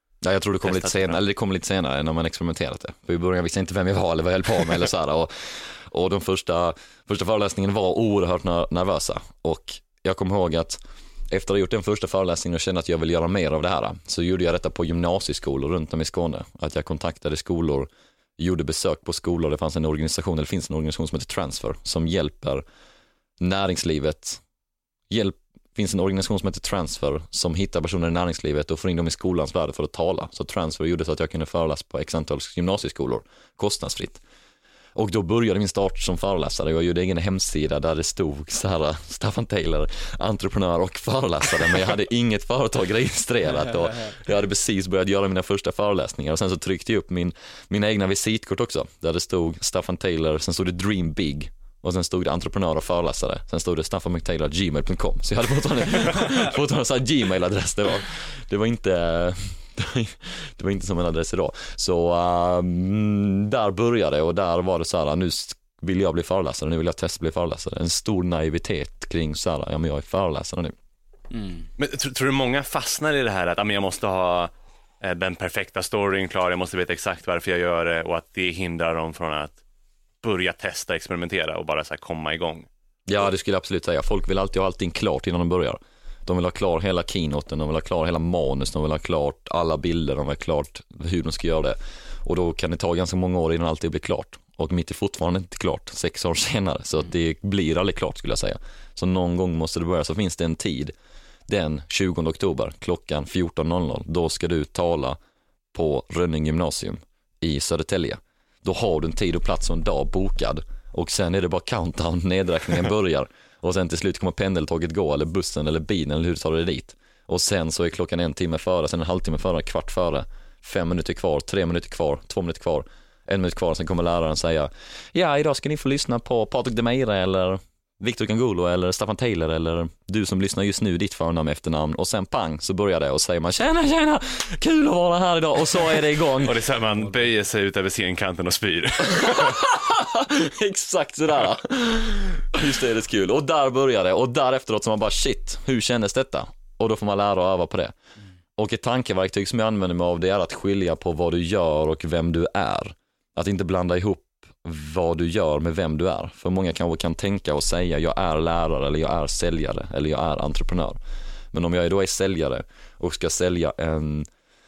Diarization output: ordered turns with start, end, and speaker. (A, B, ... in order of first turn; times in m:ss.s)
0:00.2-0:22.6 A
0:00.6-0:01.2 B
0:23.4-0:24.4 A
0:25.1-0:34.2 A
0:35.0-1:10.7 A
1:11.8-1:14.5 B
1:15.0-1:19.6 B
1:20.2-1:22.7 B
1:23.1-1:40.9 A
1:41.5-1:45.2 A
1:45.7-2:16.5 A
2:16.4-2:19.6 B
2:19.1-2:27.9 A
2:28.6-2:41.0 A
2:41.5-2:44.3 A